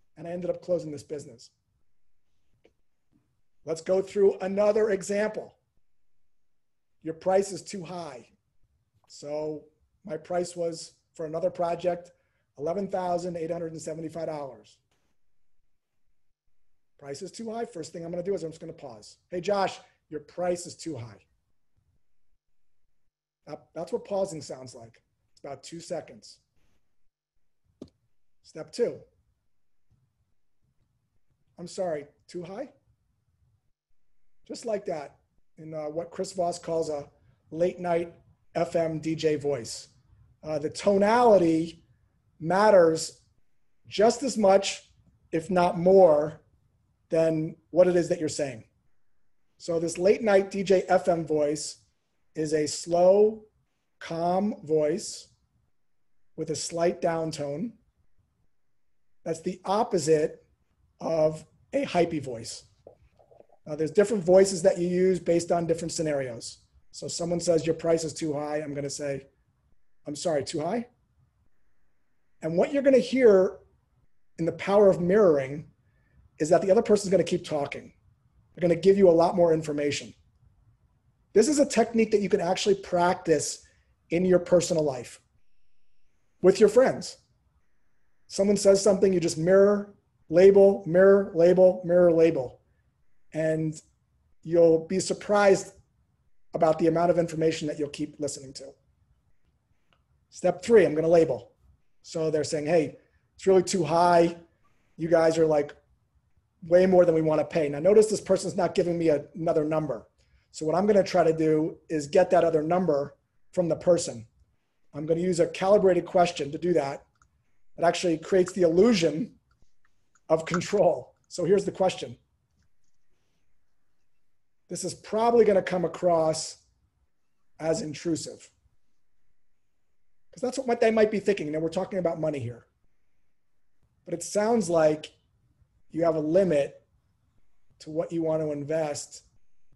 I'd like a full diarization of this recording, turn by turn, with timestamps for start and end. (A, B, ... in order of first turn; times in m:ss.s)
0:00.2-0:01.5 A
0:03.6-0:05.6 A
0:07.0-0:08.3 A
0:09.1-0:14.8 A
0:17.0-0:21.2 A
0:23.5-0:26.4 A
0:28.4-0:29.0 A
0:31.6-0:32.7 A
0:34.5-0:39.9 A
0:40.4-0:41.8 A
0:42.4-0:43.2 A
0:43.9-0:46.4 A
0:47.1-0:48.6 A
0:49.6-0:51.8 A
0:52.4-0:53.5 A
0:54.0-0:55.3 A
0:56.4-0:57.8 A
0:59.2-1:00.4 A
1:01.0-1:02.7 A
1:03.6-1:09.2 A
1:10.0-1:10.9 A
1:12.4-1:13.6 A
1:14.4-1:15.7 A
1:16.4-1:17.9 A
1:18.6-1:20.1 A
1:21.3-1:25.2 A
1:26.4-1:27.2 A
1:28.3-1:32.6 A
1:33.3-1:33.8 A
1:34.4-1:35.8 A
1:36.5-1:38.8 A
1:40.3-1:41.5 A
1:42.0-1:44.4 A
1:45.0-1:45.8 A
1:46.6-1:54.3 A
1:54.9-1:57.0 A
1:57.8-1:59.4 A
2:00.3-2:02.2 A
2:04.7-2:06.6 A
2:07.6-2:08.5 A
2:10.3-2:12.7 A
2:14.1-2:15.1 A
2:15.9-2:16.8 A
2:17.8-2:19.2 A